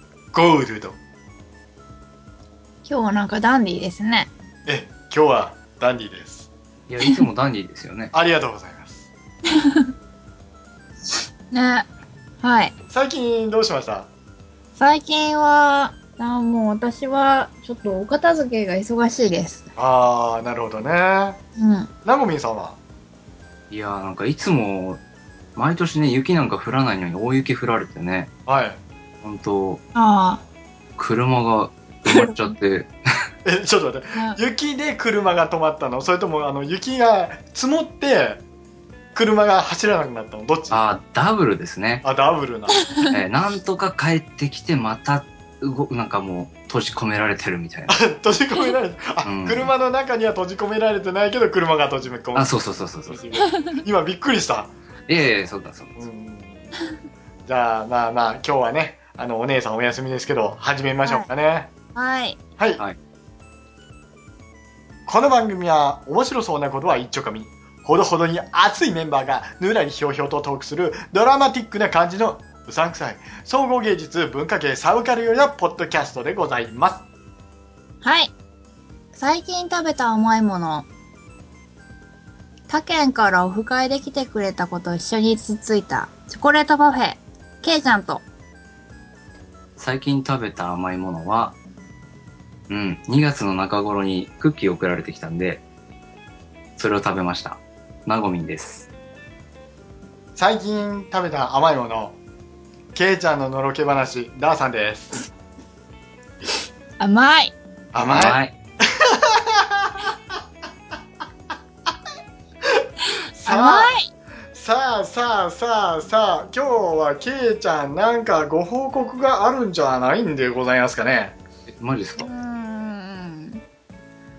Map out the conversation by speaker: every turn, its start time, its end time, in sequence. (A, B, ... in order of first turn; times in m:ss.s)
0:00.3-0:01.0 A
0:02.8-0:04.3 B
0:04.7-0:06.5 A
0:06.9-0:08.1 C
0:08.1-0:09.0 A
0:09.5-0:09.9 B
0:11.5-0:11.9 B
0:12.4-0:12.7 B
0:12.9-0:14.1 A
0:14.8-0:19.7 B
0:19.8-0:21.4 A
0:21.6-0:21.9 B
0:22.0-0:22.8 A
0:23.7-0:25.0 C
0:25.6-0:28.3 C
0:28.5-0:28.8 A
0:29.2-0:29.8 C
0:30.0-0:30.4 B
0:31.0-0:32.9 C
0:32.1-0:32.5 B
0:33.4-0:38.4 A
0:39.2-0:40.8 A
0:40.7-0:42.0 C
0:42.0-0:42.8 A
0:42.8-0:43.1 B
0:43.0-0:48.0 C
0:47.9-0:52.6 A
0:49.2-0:49.7 C
0:52.4-0:53.2 C
0:53.1-0:54.7 A
0:53.4-0:53.8 B
0:55.1-0:56.0 C
0:56.0-0:56.7 A
0:57.4-1:01.7 A
1:02.0-1:02.4 B
1:05.1-1:17.1 A
1:18.0-1:18.3 B
1:19.1-1:20.9 B
1:22.7-1:28.2 B
1:29.8-1:31.6 C
1:32.7-1:35.6 C
1:36.8-1:38.9 C
1:40.4-1:42.2 A
1:42.9-1:45.2 A
1:47.0-1:47.6 B
1:47.9-1:50.1 A
1:48.1-1:48.5 C
1:52.6-1:54.0 A
1:53.4-1:54.1 B
1:54.5-2:01.4 A
2:01.7-2:02.3 C
2:02.2-2:03.6 B